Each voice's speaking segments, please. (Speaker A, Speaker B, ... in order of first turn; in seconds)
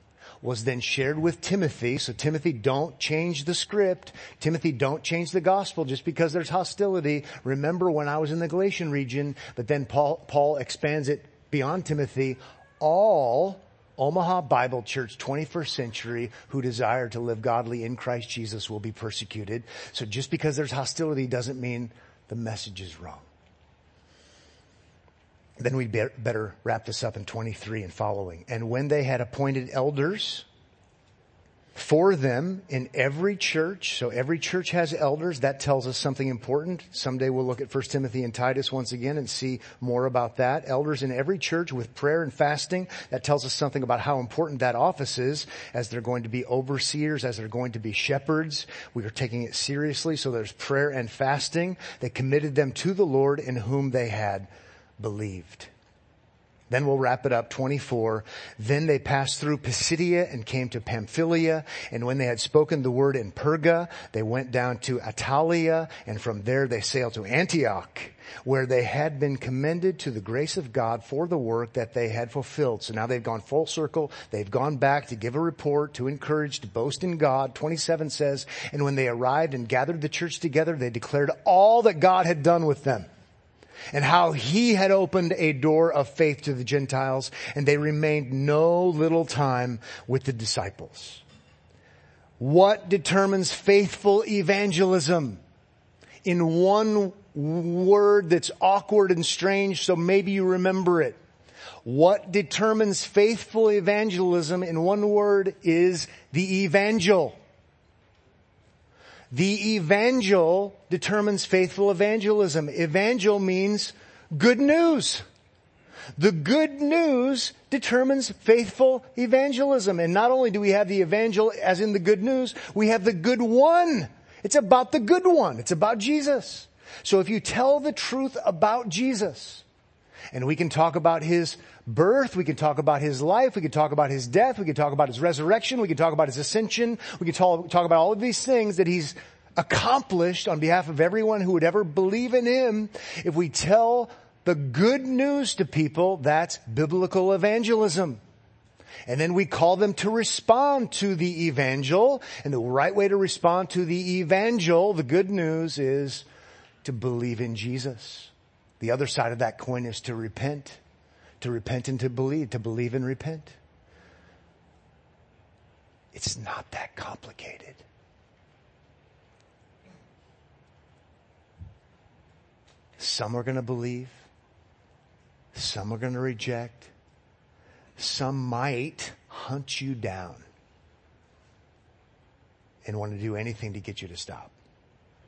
Speaker A: 0.4-23.2, 25.6-30.4, 31.8-54.5, 55.0-55.7, 56.7-83.1, 83.9-91.2, 92.4-95.4, 96.2-101.2, 101.8-107.4, 109.3-115.2, 116.2-129.6, 130.3-148.2, 149.1-156.2, 156.8-160.8, 161.4-163.6, 166.1-167.8, 173.0-174.2, 175.5-176.9, 178.0-180.4, 182.8-184.5